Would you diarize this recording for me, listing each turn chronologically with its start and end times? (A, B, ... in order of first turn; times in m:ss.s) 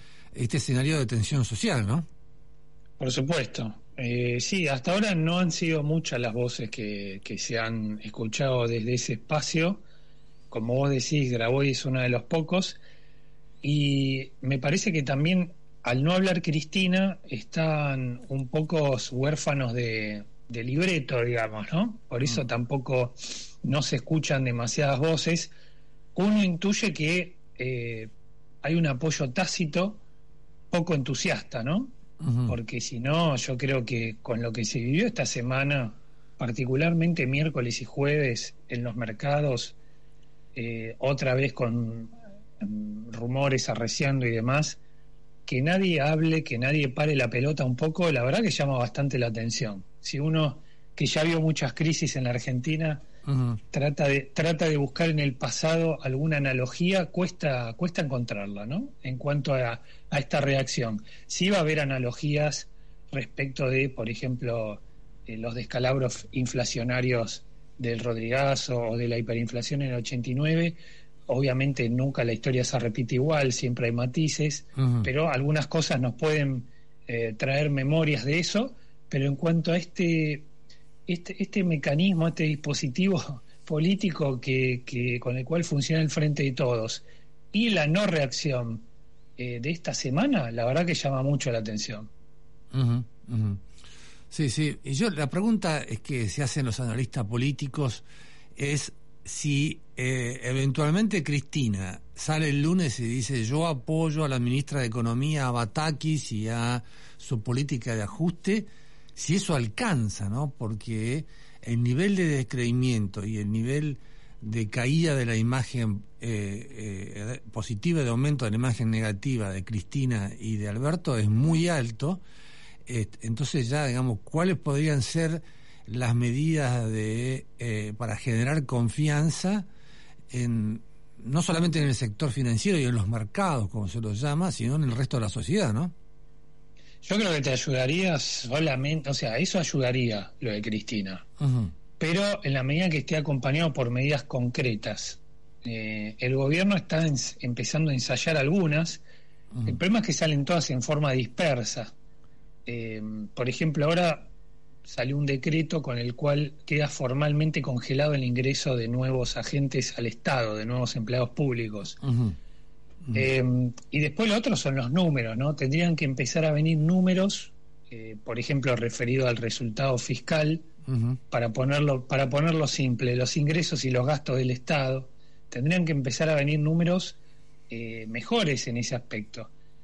0:00.3-0:02.1 A
0:03.0-0:09.8 B
0:10.5-0:12.8 B
0:13.6-0:25.5 B
0:26.2-0:28.1 B
0:28.6-0:30.0 B
0:30.7-0:31.9 B
0:32.2-0:32.6 A
0:32.5-0:39.8 B
0:40.6-0:44.8 B
0:45.5-0:53.0 B
0:53.3-0:53.6 A
0:53.7-1:20.5 B
1:14.8-1:15.1 A
1:21.1-1:28.8 B
1:29.4-1:32.1 B
1:32.7-1:33.6 A
1:34.3-1:38.0 A
1:38.6-2:02.2 A
2:02.9-2:09.7 A
2:10.3-2:15.9 A
2:17.0-2:21.2 B
2:21.4-2:21.7 A
2:22.0-2:29.0 B
2:29.7-2:31.9 B
2:32.7-2:34.3 B
2:34.8-2:42.0 B
2:42.0-2:42.4 A
2:43.2-2:50.7 B
2:50.9-2:51.2 A
2:51.3-2:57.2 B
2:57.7-2:59.5 B